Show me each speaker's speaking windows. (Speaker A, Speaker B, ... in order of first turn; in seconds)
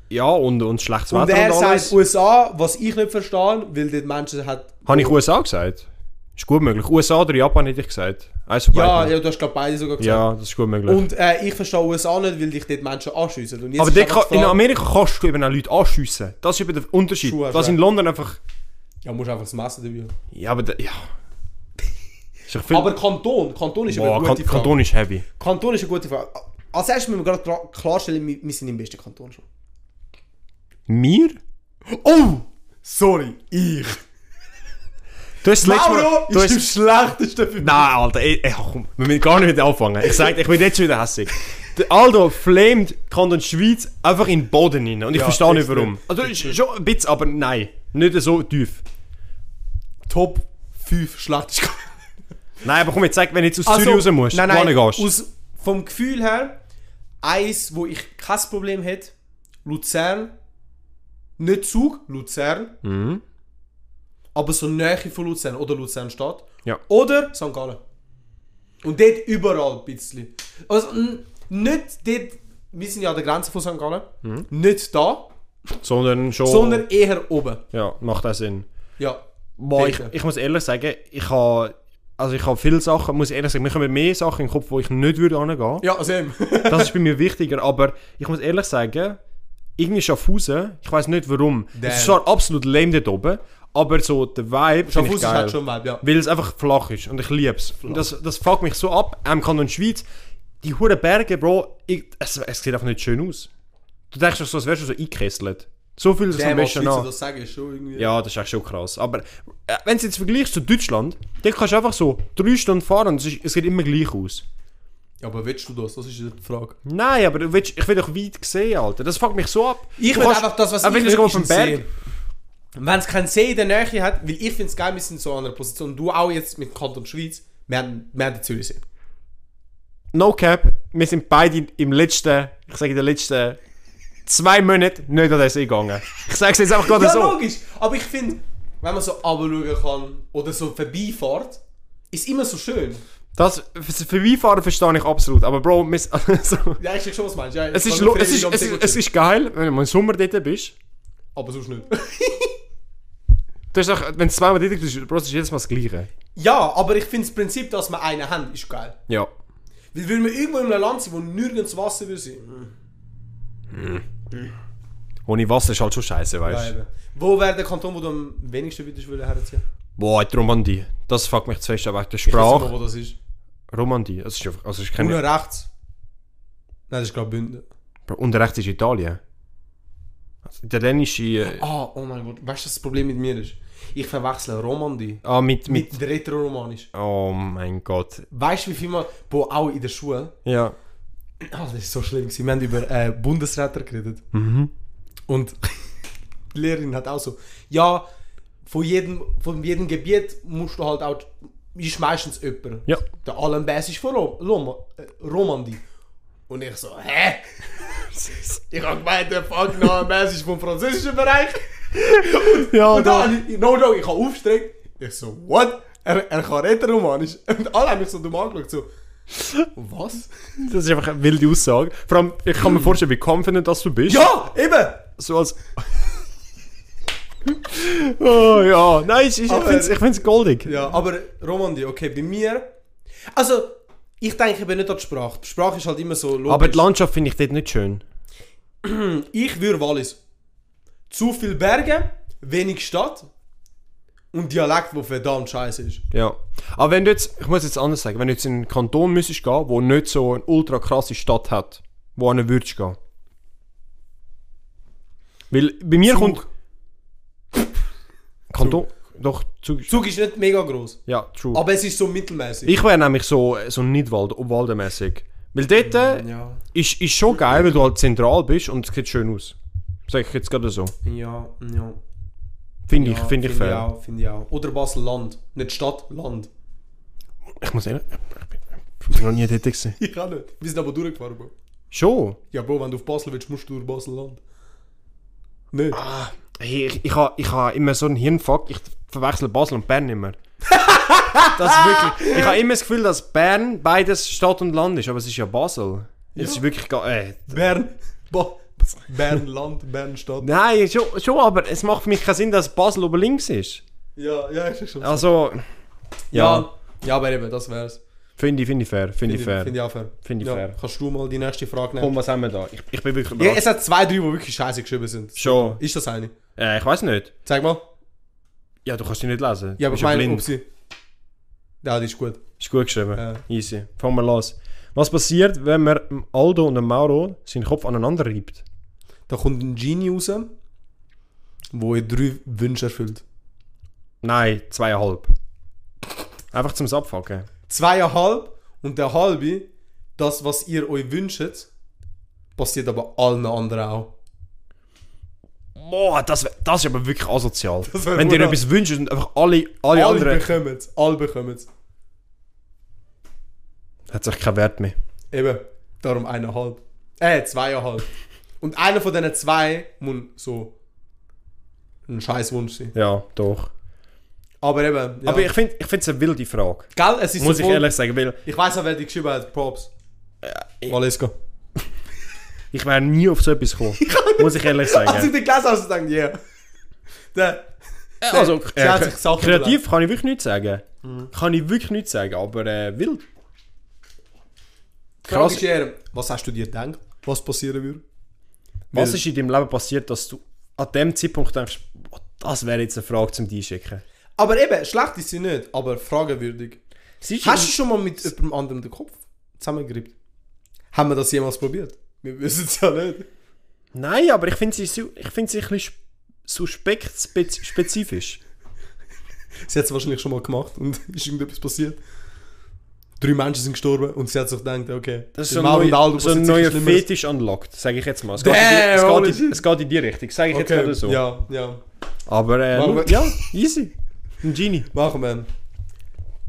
Speaker A: 0.1-1.9, 4.8-9.1, 10.0-11.1, 13.8-18.4, 20.3-21.1, 22.5-22.9, 23.9-25.2, 30.9-31.4, 35.4-36.6, 37.6-48.8, 52.6-55.1, 62.8-63.2, 75.8-76.8, 77.7-78.7, 79.6-85.8, 86.7-89.2, 89.8-100.0, 100.6-103.5, 104.1-107.1, 108.0-114.4, 116.8-121.8, 130.1-133.6, 134.2-137.4, 143.3-146.8, 147.7-150.7, 153.7-156.1, 163.7-164.0, 165.2-166.7, 170.0-172.7, 173.7-175.2, 178.1-179.2, 180.4-181.6, 185.2-186.0, 186.9-188.2, 190.4-190.8, 194.3-194.7, 208.2-208.4, 212.3-213.3, 220.6-224.3, 225.2-226.1, 227.4-230.8, 236.5-238.0, 246.1-253.0, 255.5-256.4, 258.5-260.0, 261.1-261.6, 262.6-269.6, 270.1-270.9, 272.9-273.9, 277.5-279.9, 281.9-282.4, 285.9-290.4, 291.5-297.6, 300.4-303.8, 305.0-305.7, 306.3-306.6, 308.4-310.7, 312.0-313.6, 315.4-315.8, 316.6-317.3, 318.8-320.5, 322.6-328.6, 334.2-335.3, 336.5-337.5, 345.8-350.5, 354.1-354.9, 362.9-363.7, 365.2-368.4, 370.4-370.9, 372.7-375.3, 378.2-383.2, 385.2-385.6, 388.9-394.0, 397.2-397.8, 403.9-408.4, 415.4-421.2, 422.3-424.9
Speaker B: 1.1-5.2, 8.7-10.3, 10.8-14.6, 17.2-17.8, 19.0-20.1, 22.7-24.8, 25.4-29.4, 31.9-34.0, 35.6-37.9, 45.1-46.5, 50.1-51.9, 53.6-56.6, 57.2-59.1, 59.6-60.3, 61.4-62.8, 64.3-67.8, 68.8-75.3, 76.4-77.6, 79.7-80.1, 85.8-86.9, 91.7-92.2, 94.9-96.0, 106.3-108.1, 115.2-116.8, 120.0-121.9, 122.8-128.8, 136.8-141.6, 142.1-143.0, 146.8-149.0, 151.3-152.5, 156.3-159.0, 159.9-162.7, 166.4-169.6, 172.2-173.2, 175.0-175.7, 176.9-177.6, 181.4-186.9, 188.3-190.3, 191.4-194.2, 195.3-195.9, 196.5-198.1, 198.6-205.8, 206.5-218.9, 219.7-220.3, 224.1-225.1, 229.5-230.0, 230.6-232.7, 233.3-236.9, 238.8-240.2, 241.1-243.3, 244.3-246.0, 256.1-256.4, 259.9-261.0, 261.5-262.7, 265.8-266.6, 271.0-272.0, 272.9-276.5, 280.0-281.5, 282.5-284.4, 285.7-286.0, 290.6-292.6, 296.3-296.6, 297.5-300.5, 304.2-305.2, 306.3-308.0, 309.2-312.1, 313.4-316.3, 317.4-317.9, 319.8-320.6, 321.8-322.4, 323.1-323.4, 329.3-330.5, 331.7-333.2, 337.7-341.7, 342.6-344.1, 347.9-348.6, 349.9-351.7, 355.3-358.1, 358.6-360.7, 362.1-362.9, 364.6-365.5, 366.9-367.9, 368.4-369.9, 370.9-371.3, 374.0-376.4, 377.3-377.7, 378.2-379.8, 385.2-388.0, 388.9-389.2, 394.4-396.8, 397.4-400.1, 400.9-403.2, 409.7-412.0, 413.2-417.1, 418.4-419.6, 420.5-421.8, 422.7-423.5, 424.9-425.5